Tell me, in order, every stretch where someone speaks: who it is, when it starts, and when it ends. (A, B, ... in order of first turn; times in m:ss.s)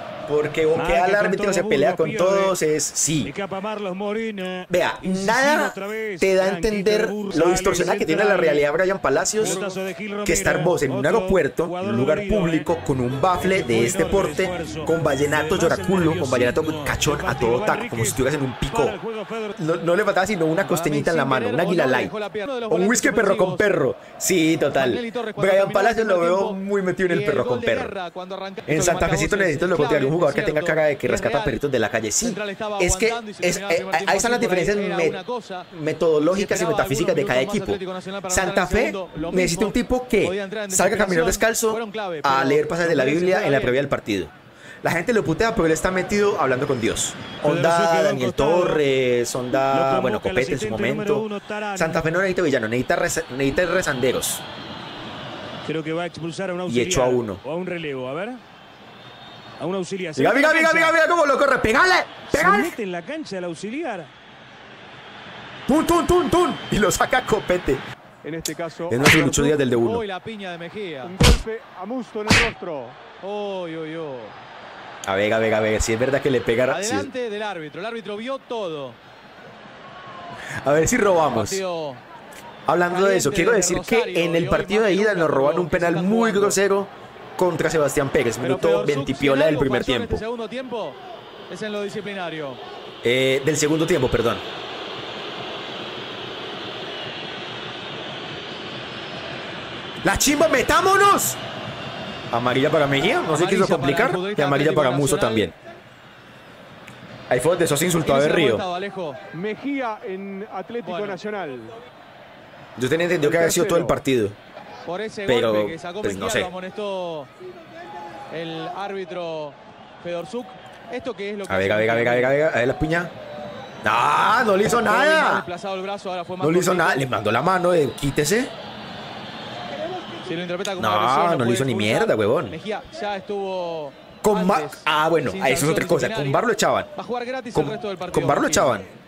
0:00.3-0:03.3 A
0:00.7-0:02.6 B
0:03.2-0:08.6 B
0:04.7-0:09.6 A
0:09.4-0:12.7 B
0:09.4-0:09.7 C
0:10.2-0:19.0 A
0:13.4-0:19.6 B
0:19.6-0:22.1 A
0:20.6-0:23.8 C
0:22.7-0:27.9 A
0:24.8-0:31.6 C
0:28.7-0:35.2 A
0:32.2-0:35.7 C
0:35.7-0:44.3 A
0:36.3-0:43.8 C
0:44.8-0:54.4 A
0:47.4-0:48.8 B
0:49.7-0:52.1 B
0:55.6-0:58.4 B
0:56.7-0:57.4 A
0:59.6-1:01.0 B
1:00.2-1:02.8 A
1:02.3-1:04.1 B
1:05.7-1:07.8 A
1:08.2-1:09.6 D
1:08.9-1:10.0 A
1:09.7-1:11.1 C
1:11.0-1:13.0 D
1:13.2-1:14.3 C
1:15.0-1:17.1 A
1:16.7-1:19.0 C
1:20.6-1:21.6 A
1:21.3-1:22.0 C
1:22.7-1:30.2 A
1:22.9-1:26.6 C
1:28.4-1:31.0 C
1:31.5-1:32.6 C
1:33.0-1:34.4 A
1:40.0-1:41.4 A
1:42.3-1:45.5 A
1:43.3-1:45.5 C
1:47.3-1:48.6 A
1:48.0-1:49.2 C
1:49.3-1:51.7 D
1:50.8-1:51.2 C
1:52.8-1:54.4 A
1:53.2-1:54.0 C
1:54.8-1:57.3 C
1:55.3-1:56.5 A
1:58.3-2:02.4 C
2:01.4-2:03.1 A
2:03.8-2:05.4 A
2:04.6-2:07.1 C
2:06.4-2:08.5 A
2:10.2-2:16.4 C
2:10.8-2:12.6 A
2:14.2-2:16.9 A
2:17.0-2:18.8 C
2:17.5-2:18.9 A